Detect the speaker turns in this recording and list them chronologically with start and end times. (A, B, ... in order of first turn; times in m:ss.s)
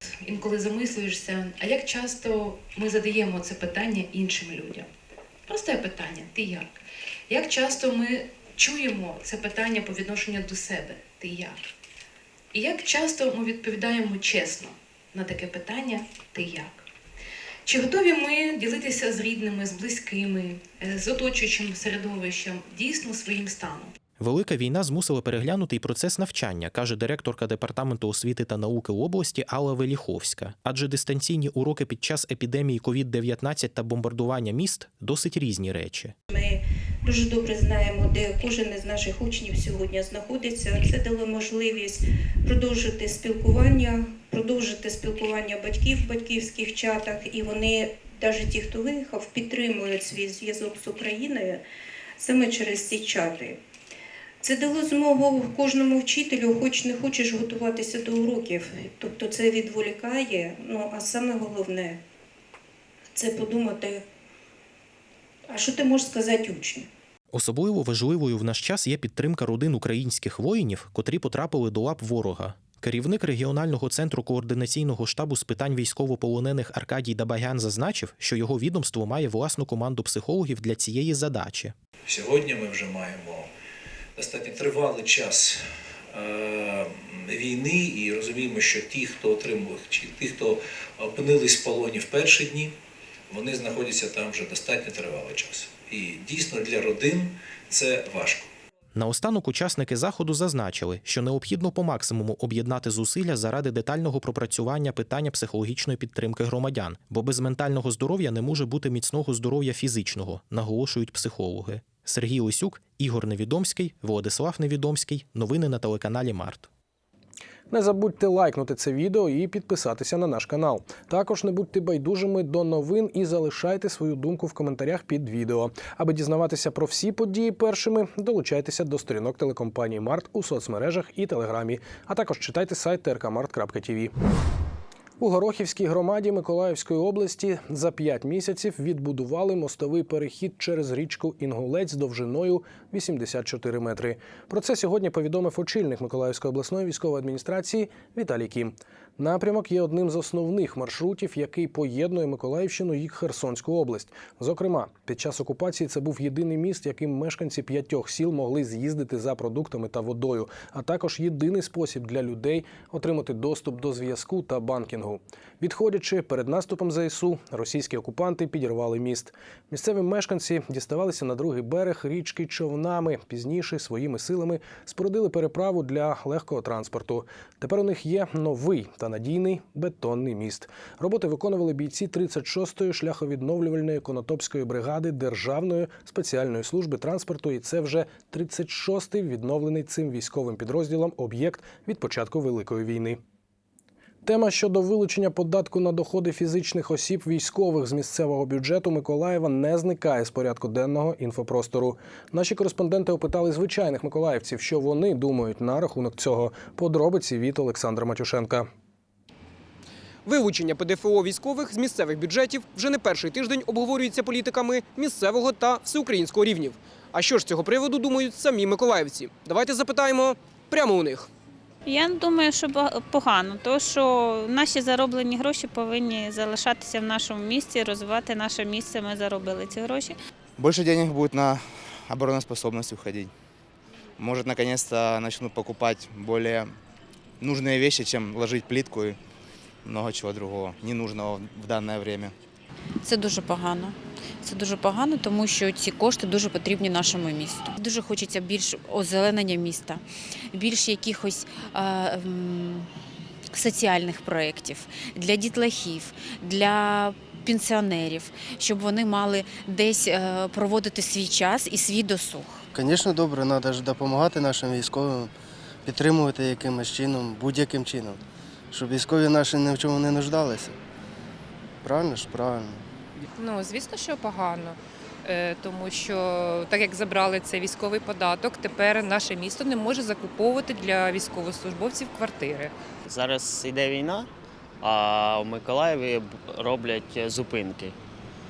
0:00.2-0:04.9 A
0:05.5-0:06.7 A
0:07.3-0:11.6 A
0:12.5-0:16.8 A
0:17.6-0:23.9 A
0:24.2-0:36.1 B
0:36.3-0:51.6 C
0:52.2-0:53.6 C
0:54.4-1:02.0 C
1:03.1-1:04.0 C
1:05.5-1:06.9 C
1:07.3-1:21.7 B
1:22.1-1:23.5 D
1:24.2-1:32.7 D
1:33.3-1:38.5 D
1:38.9-1:56.7 B
1:57.7-2:14.1 E
2:15.2-3:13.2 E
3:14.2-3:28.7 E
3:30.2-3:41.3 F
3:41.8-3:50.1 G
3:50.6-3:53.3 H
3:54.2-3:56.7 H
3:57.4-3:59.2 H
3:59.8-4:02.3 H
4:03.0-4:12.9 I
4:13.5-4:22.6 I
4:22.7-4:25.3 J
4:25.8-4:30.8 J
4:31.8-4:32.8 J
4:33.4-4:42.7 K
4:43.0-4:44.3 L
4:44.8-4:47.9 L